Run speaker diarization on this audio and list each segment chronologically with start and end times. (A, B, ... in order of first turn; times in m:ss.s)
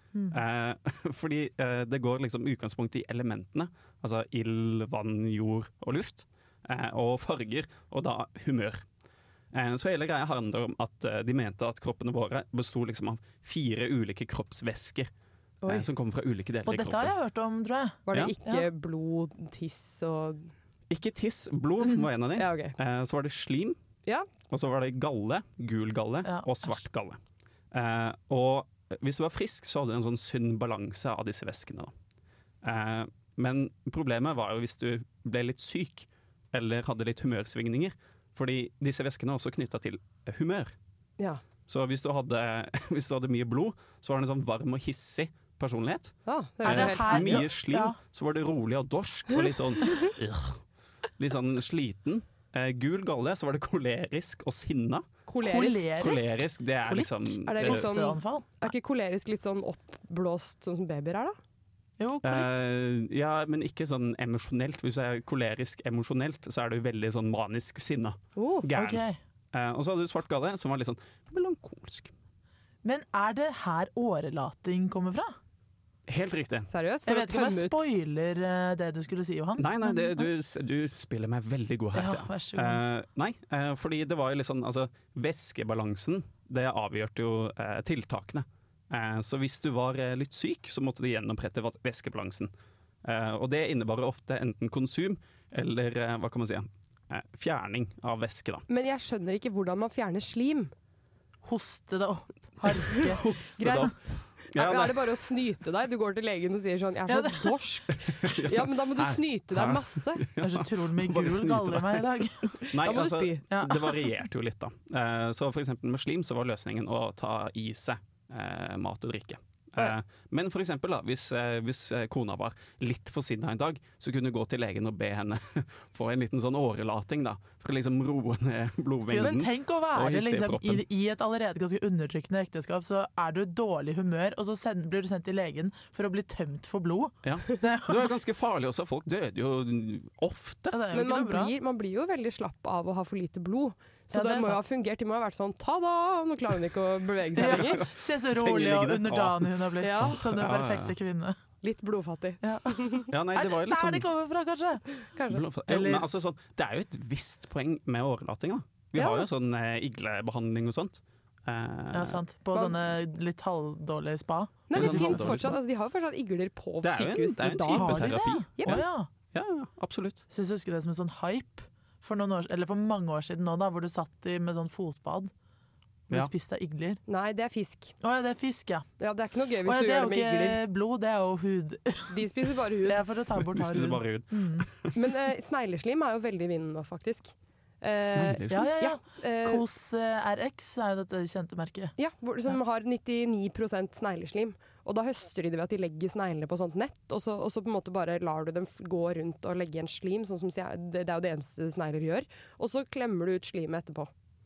0:00.1-0:00.4 A
0:00.3-0:08.8 B
0:09.5-0:15.1 B
0:15.7-0:17.1 B
0:16.6-0:18.7 A
0:18.1-0:20.5 C
0:20.9-0:23.8 B
0:22.4-0:22.7 C
0:24.5-0:27.2 B
0:26.2-0:26.8 A
0:27.7-0:31.9 B
0:32.6-0:40.7 B
0:41.7-0:50.6 B
0:46.2-0:47.4 C
0:46.6-0:48.0 A
0:51.2-0:55.0 B
0:55.3-0:55.9 C
0:55.4-0:58.7 A
0:56.0-0:57.9 B
0:57.4-1:01.4 C
1:02.0-1:02.5 A
1:02.2-1:09.0 B
1:08.4-1:08.7 C
1:08.8-1:09.2 A
1:09.5-1:12.1 B
1:12.8-1:15.3 A
1:16.1-1:16.7 B
1:16.7-1:18.0 C
1:17.1-1:20.3 A
1:19.6-1:32.5 B
1:21.9-1:22.8 A
1:33.0-1:38.6 B
1:38.7-1:40.7 C
1:41.4-1:43.2 A
1:43.0-1:43.9 B
1:43.6-1:43.9 C
1:44.5-1:50.2 C
1:44.5-1:45.0 B
1:47.1-1:47.6 A
1:48.1-2:10.8 B
1:50.4-1:52.5 A
1:52.8-1:53.4 C
1:53.5-1:53.8 A
2:09.1-2:18.0 A
2:17.2-2:20.8 B
2:20.7-2:21.5 A
2:20.9-2:27.8 C
2:24.1-2:24.6 A
2:27.4-2:31.4 A
2:27.4-2:30.9 B
2:29.8-2:30.2 C
2:31.6-2:33.1 C
2:32.4-2:34.8 A
2:33.1-2:34.1 B
2:35.0-2:35.4 C
2:35.3-2:42.2 B
2:35.7-2:36.1 A
2:39.0-2:39.2 C
2:41.9-2:45.6 A
2:44.7-2:48.8 C
2:44.7-2:45.6 B
2:46.8-2:50.2 B
2:47.6-2:49.1 A
2:50.3-2:55.3 A
2:56.1-2:57.0 A
2:57.1-2:58.0 C
2:58.0-2:58.8 A
2:59.0-3:00.6 C
2:59.6-3:02.3 A
3:02.1-3:03.0 C
3:02.8-3:04.7 A
3:03.4-3:04.9 B
3:04.9-3:09.6 C
3:08.0-3:08.7 B
3:08.5-3:11.9 A
3:12.0-3:24.1 C